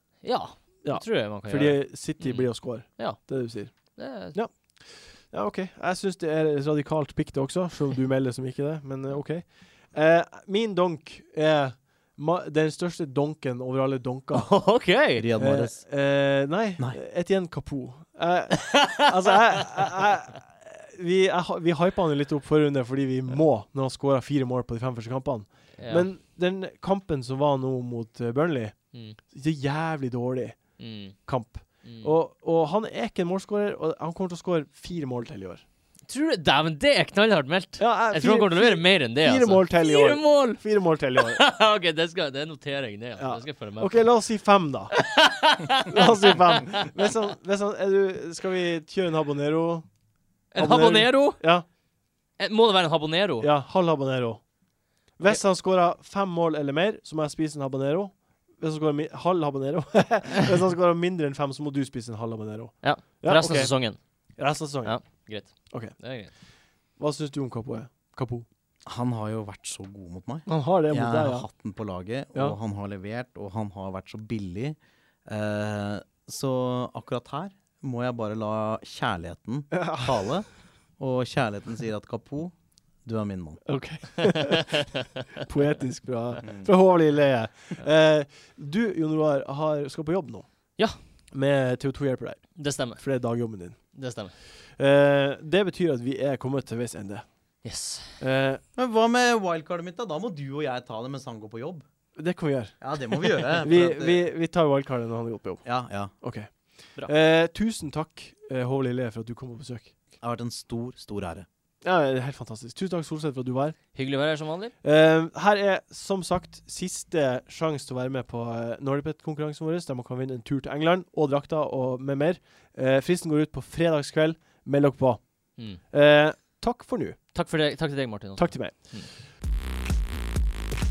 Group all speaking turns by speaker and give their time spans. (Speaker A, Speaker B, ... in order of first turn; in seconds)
Speaker A: 0.2-4.4, 14.3-15.3, 25.8-26.1, 30.8-31.1, 31.8-32.1, 36.1-44.1, 44.9-47.1, 50.5-51.4, 52.4-53.5, 62.8-64.0, 64.8-66.3, 92.5-93.0, 93.9-94.4, 97.6-98.2, 113.9-114.7, 127.3-129.1
Speaker B: 0.8-14.5, 15.4-35.6, 37.8-41.4, 43.2-45.0, 45.9-49.9, 50.6-51.6, 53.4-54.5, 55.2-63.9, 64.4-66.4, 66.9-68.5, 70.5-71.5, 79.7-80.2, 83.7-84.8, 85.4-90.5, 91.3-93.9, 94.5-97.3, 98.2-98.6, 102.2-109.9, 111.8-113.8, 114.8-127.2, 128.4-128.7
Speaker C: 15.2-16.0, 68.8-83.6, 86.4-86.7, 98.8-101.8, 102.8-104.2, 105.6-106.1, 110.2-111.5